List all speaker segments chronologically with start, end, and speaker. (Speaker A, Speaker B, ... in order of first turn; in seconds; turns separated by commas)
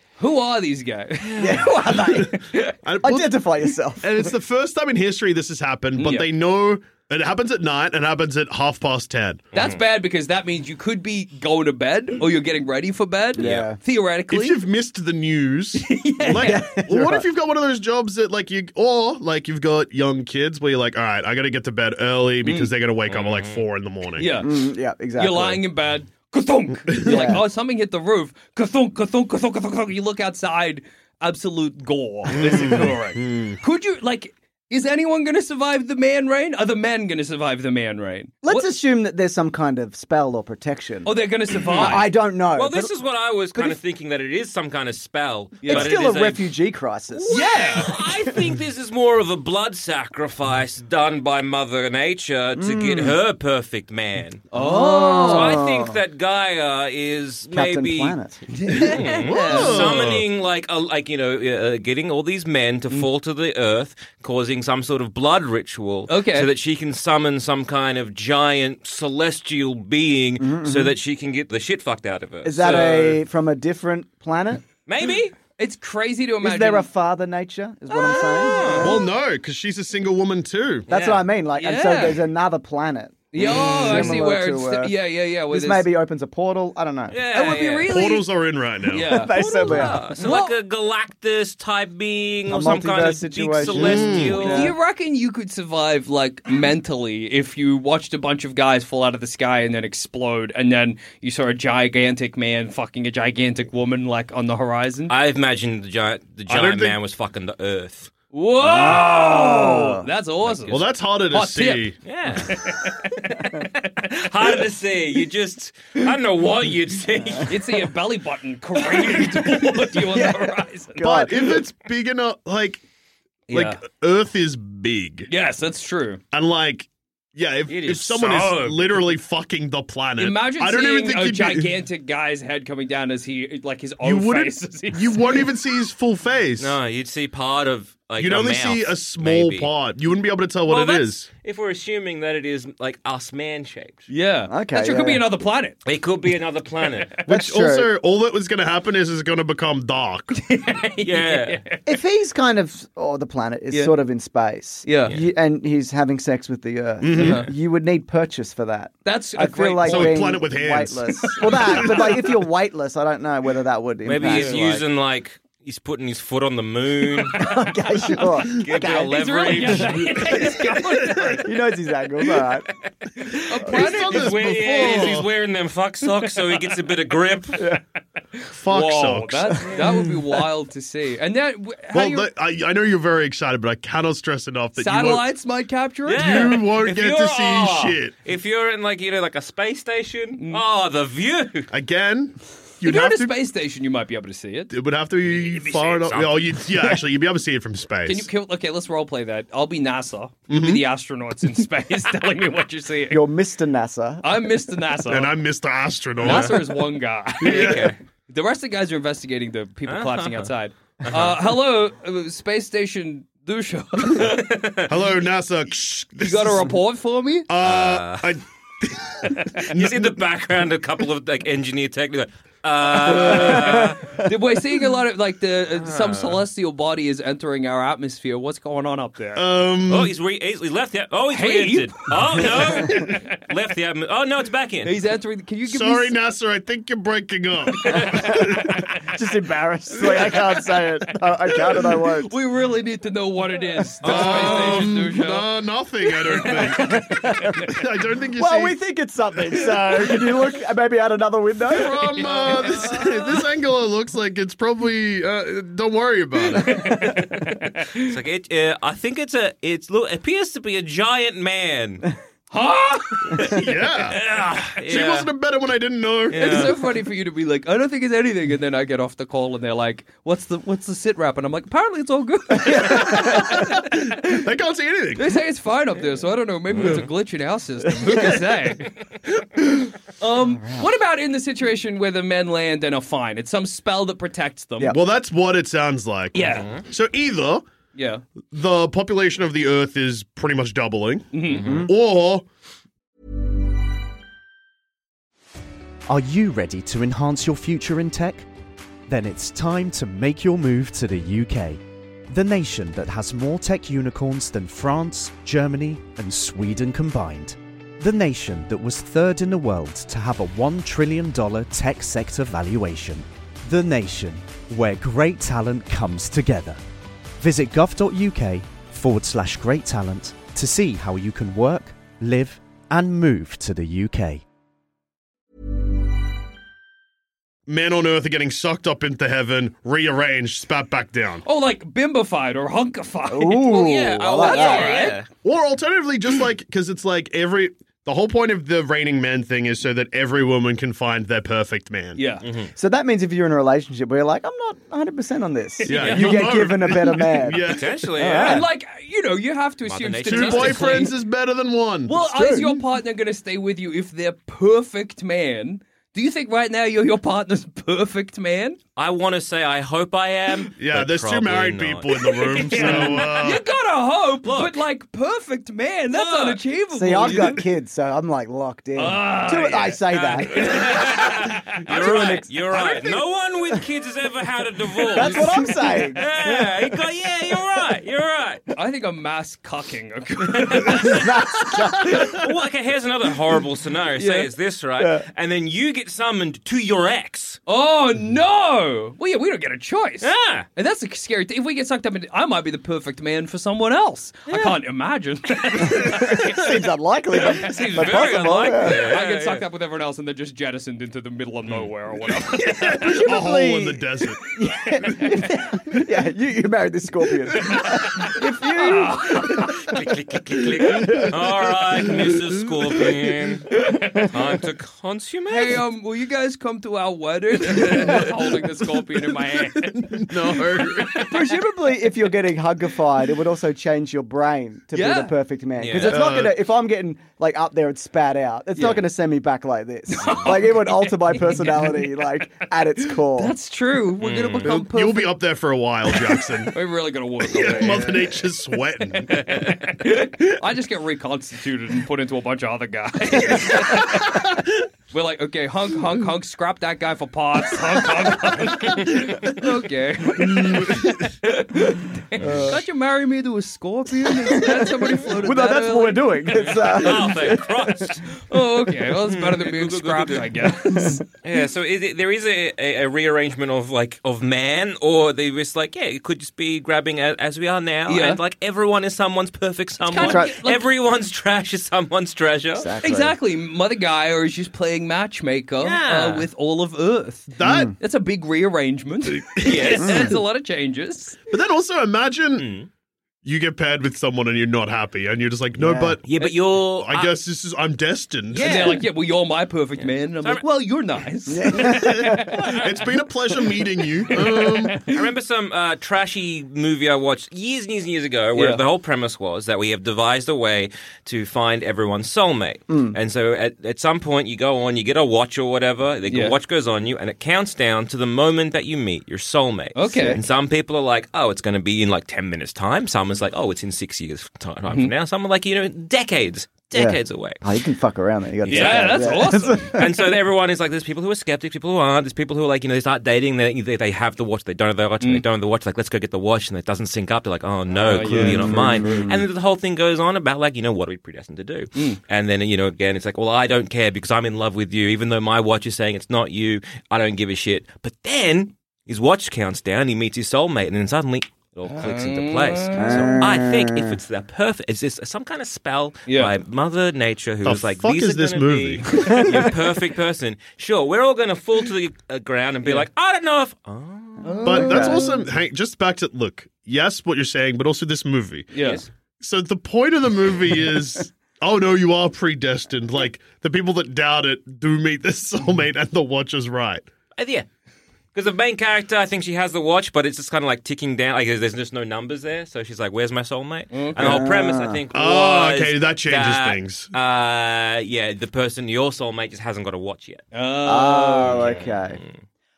Speaker A: 0.2-2.8, Speaker B: 1.4-1.7, Speaker C: 1.4-2.4, Speaker D: 2.8-3.4, Speaker C: 3.0-4.3, Speaker D: 4.0-9.5, Speaker A: 6.0-6.3, Speaker B: 9.5-9.8, Speaker A: 9.5-14.6, Speaker C: 13.4-13.8, Speaker B: 13.4-13.7, Speaker D: 14.3-24.3, Speaker A: 15.8-16.8, Speaker C: 16.3-17.3, Speaker B: 23.1-23.7, Speaker A: 24.2-24.6, Speaker C: 24.4-25.6, Speaker A: 25.2-38.7, Speaker D: 27.0-27.3, Speaker C: 27.0-27.4, Speaker D: 32.3-33.6, Speaker C: 38.4-41.1, Speaker A: 41.0-42.1, Speaker C: 41.7-42.9, Speaker B: 41.7-42.0, Speaker B: 42.5-46.5, Speaker C: 43.5-43.8, Speaker A: 45.6-45.9, Speaker C: 45.7-48.4, Speaker B: 47.1-54.5, Speaker A: 47.3-48.0, Speaker C: 52.6-53.2, Speaker A: 54.5-55.6, Speaker C: 54.5-56.0, Speaker B: 55.2-58.2, Speaker C: 57.5-58.9, Speaker A: 58.5-59.9, Speaker B: 58.7-73.2, Speaker D: 59.2-60.2, Speaker A: 66.1-66.5, Speaker C: 70.4-70.9, Speaker C: 72.4-74.6, Speaker B: 74.9-75.3, Speaker A: 75.6-76.9, Speaker C: 76.4-79.0, Speaker B: 77.9-79.0, Speaker D: 78.8-80.9, Speaker B: 80.9-81.2, Speaker C: 80.9-87.2, Speaker A: 81.6-82.3, Speaker A: 83.3-85.9, Speaker B: 83.9-84.1, Speaker B: 87.1-88.0, Speaker A: 87.3-88.3, Speaker D: 87.9-89.2, Speaker A: 88.9-90.5, Speaker C: 89.0-90.0, Speaker B: 89.3-94.8, Speaker C: 92.5-94.8, Speaker D: 93.7-94.4, Speaker A: 94.4-105.1, Speaker B: 105.1-108.1, Speaker D: 106.5-107.0, Speaker A: 108.3-113.7, Speaker C: 108.6-110.1, Speaker B: 110.4-110.9, Speaker D: 110.7-112.0, Speaker B: 112.0-112.7, Speaker B: 113.5-117.8, Speaker A: 117.5-121.1, Speaker C: 120.0-121.7, Speaker D: 121.0-122.8, Speaker A: 123.5-123.8, Speaker D: 123.5-125.3, Speaker A: 125.3-126.2, Speaker D: 126.3-131.8, Speaker B: 127.7-129.1, Speaker A: 130.2-135.4, Speaker D: 134.0-136.8, Speaker B: 136.6-139.7, Speaker D: 138.2-141.3, Speaker B: 140.7-144.1, Speaker A: 144.1-145.8, Speaker C: 144.5-145.2, Speaker B: 145.8-147.1, Speaker D: 147.3-150.4, Speaker C: 147.3-147.9, Speaker A: 150.3-151.8, Speaker B: 151.0-151.6, Speaker C: 151.9-164.8, Speaker A: 154.8-155.1, Speaker D: 157.0-157.5, Speaker A: 157.1-157.5, Speaker A: 159.1-160.3, Speaker D: 159.8-162.3, Speaker A: 161.2-161.9, Speaker B: 164.1-167.6, Speaker C: 167.2-169.9, Speaker B: 168.2-170.6, Speaker A: 168.9-171.6, Speaker C: 171.4-172.7, Speaker A: 173.2-175.2, Speaker D: 173.7-175.3, Speaker B: 173.7-177.7, Speaker A: 178.4-182.3, Speaker D: 178.5-179.8, Speaker D: 181.9-185.3, Speaker A: 184.8-186.6, Speaker B: 186.1-191.7, Speaker D: 186.2-188.1, Speaker D: 191.7-193.3, Speaker A: 192.8-194.7, Speaker D: 194.7-198.3, Speaker A: 195.3-196.4, Speaker B: 196.1-196.4, Speaker A: 198.1-203.2, Speaker D: 200.5-200.8, Speaker C: 203.1-204.3, Speaker A: 204.2-205.3, Speaker D: 205.1-206.8, Speaker A: 206.2-214.6, Speaker B: 206.2-206.5, Speaker D: 207.4-207.9, Speaker B: 207.4-208.0, Speaker B: 209.9-210.5, Speaker B: 211.0-211.4, Speaker B: 214.1-214.9, Speaker D: 214.9-216.7, Speaker A: 216.2-217.5, Speaker D: 217.5-220.2, Speaker B: 217.6-218.3, Speaker B: 219.5-224.2, Speaker A: 223.2-229.5, Speaker C: 223.3-223.9, Speaker B: 225.8-226.4, Speaker D: 229.3-230.1, Speaker B: 229.9-234.9, Speaker A: 231.3-233.3, Speaker A: 234.8-236.2, Speaker D: 235.7-238.9, Speaker A: 237.8-238.6, Speaker C: 238.0-242.3, Speaker A: 240.0-240.8, Speaker A: 241.5-245.5, Speaker B: 244.0-245.0, Speaker D: 244.0-248.8, Speaker A: 246.2-247.8, Speaker C: 246.7-247.7, Speaker C: 248.4-252.1, Speaker D: 249.7-250.2, Speaker D: 251.7-257.1, Speaker A: 251.9-253.3, Speaker B: 252.5-252.8, Speaker A: 256.5-258.1, Speaker B: 257.9-262.1, Speaker A: 262.5-263.7, Speaker D: 263.4-264.2, Speaker B: 264.1-265.3, Speaker D: 264.9-266.7, Speaker B: 266.3-266.8, Speaker A: 266.3-274.4, Speaker C: 272.7-273.2, Speaker D: 273.0-275.4, Speaker A: 275.2-278.9, Speaker A: 280.2-284.9, Speaker C: 280.4-280.9, Speaker D: 284.9-287.7, Speaker A: 286.3-286.8, Speaker B: 286.5-286.8, Speaker A: 287.9-288.2, Speaker D: 288.5-292.5, Speaker A: 291.3-291.9, Speaker B: 291.5-291.9, Speaker C: 291.6-291.9, Speaker E: 296.1-298.5, Speaker E: 299.1-316.8, Speaker E: 317.4-324.4, Speaker D: 327.7-331.4, Speaker A: 331.4-335.2, Speaker C: 333.3-335.1, Speaker B: 333.7-335.3, Speaker D: 335.4-342.2, Speaker A: 342.1-342.5, Speaker B: 342.4-342.7, Speaker C: 342.8-348.7, Speaker A: 345.8-346.5, Speaker D: 345.9-348.0, Speaker B: 347.6-348.6, Speaker A: 348.4-351.1, Speaker B: 349.9-351.1, Speaker D: 350.3-352.2, Speaker A: 352.1-358.8, Speaker C: 352.2-352.8, Speaker B: 359.0-363.6, Speaker D: 360.8-363.6, Speaker A: 362.2-367.6, Speaker B: 364.4-364.8, Speaker B: 366.1-366.6, Speaker C: 366.9-371.2, Speaker A: 369.0-372.1, Speaker B: 370.1-378.6, Speaker C: 371.8-373.0, Speaker A: 372.7-373.2, Speaker C: 375.1-376.8, Speaker A: 375.2-375.7, Speaker A: 378.8-381.3, Speaker B: 380.6-387.6, Speaker C: 380.9-382.4, Speaker A: 384.2-384.5, Speaker C: 385.0-385.2, Speaker A: 387.7-396.8, Speaker B: 390.2-390.7, Speaker B: 394.5-394.8, Speaker C: 395.8-399.2, Speaker A: 397.5-398.2, Speaker B: 397.5-399.6, Speaker A: 398.8-403.3, Speaker D: 402.7-404.4, Speaker C: 402.8-409.8, Speaker A: 404.9-405.6, Speaker A: 407.6-409.7, Speaker B: 409.5-415.8, Speaker C: 410.9-411.4, Speaker D: 412.2-413.1, Speaker A: 413.7-414.3, Speaker A: 415.5-421.4, Speaker B: 417.7-418.2, Speaker D: 417.8-418.2, Speaker D: 419.4-421.3, Speaker C: 421.2-433.5, Speaker A: 424.9-425.4, Speaker B: 425.8-426.2, Speaker D: 426.0-426.6, Speaker A: 428.8-429.0, Speaker A: 430.1-432.1, Speaker A: 433.3-435.4, Speaker B: 434.2-434.8, Speaker D: 434.6-436.7, Speaker A: 436.2-438.4, Speaker D: 437.4-439.6, Speaker A: 439.3-444.5, Speaker D: 444.0-444.4, Speaker A: 445.1-456.9, Speaker D: 448.7-449.4, Speaker D: 450.5-451.1, Speaker C: 452.4-452.8, Speaker C: 454.5-457.9, Speaker B: 456.6-458.4, Speaker A: 458.3-461.2, Speaker B: 459.1-460.7, Speaker C: 460.9-461.2, Speaker B: 461.4-472.9, Speaker A: 468.1-468.4, Speaker A: 470.1-470.9, Speaker C: 470.2-470.6, Speaker C: 472.8-473.4, Speaker A: 473.0-481.4, Speaker B: 475.8-476.5, Speaker D: 477.5-477.9, Speaker C: 477.6-477.9, Speaker D: 479.3-480.1, Speaker B: 479.6-480.4, Speaker C: 480.0-480.3, Speaker D: 481.5-482.7, Speaker B: 482.6-482.9, Speaker D: 483.4-488.9, Speaker C: 485.8-486.2, Speaker B: 486.3-487.3, Speaker B: 488.5-489.1, Speaker A: 488.6-492.8, Speaker C: 491.5-492.7, Speaker D: 491.9-495.1, Speaker B: 492.5-493.0, Speaker A: 494.3-495.2, Speaker B: 495.0-517.6, Speaker A: 498.5-498.8, Speaker C: 502.9-503.2, Speaker A: 506.3-506.6, Speaker A: 509.9-510.4, Speaker C: 510.1-510.4, Speaker C: 516.9-520.3, Speaker B: 518.6-554.5, Speaker A: 518.7-520.0, Speaker A: 527.9-529.2, Speaker C: 528.2-529.5, Speaker A: 532.0-532.2, Speaker A: 541.9-543.4, Speaker C: 543.0-544.2, Speaker A: 546.3-546.5, Speaker D: 547.6-549.5, Speaker A: 554.4-555.4, Speaker C: 554.6-555.4, Speaker D: 554.6-558.7, Speaker A: 558.7-559.0, Speaker B: 558.8-559.1, Speaker D: 559.4-567.0, Speaker B: 567.4-567.7, Speaker B: 568.3-580.5, Speaker A: 573.9-574.4, Speaker C: 574.2-575.0, Speaker D: 575.1-577.1, Speaker A: 580.5-581.8, Speaker C: 580.8-582.2, Speaker B: 581.5-582.3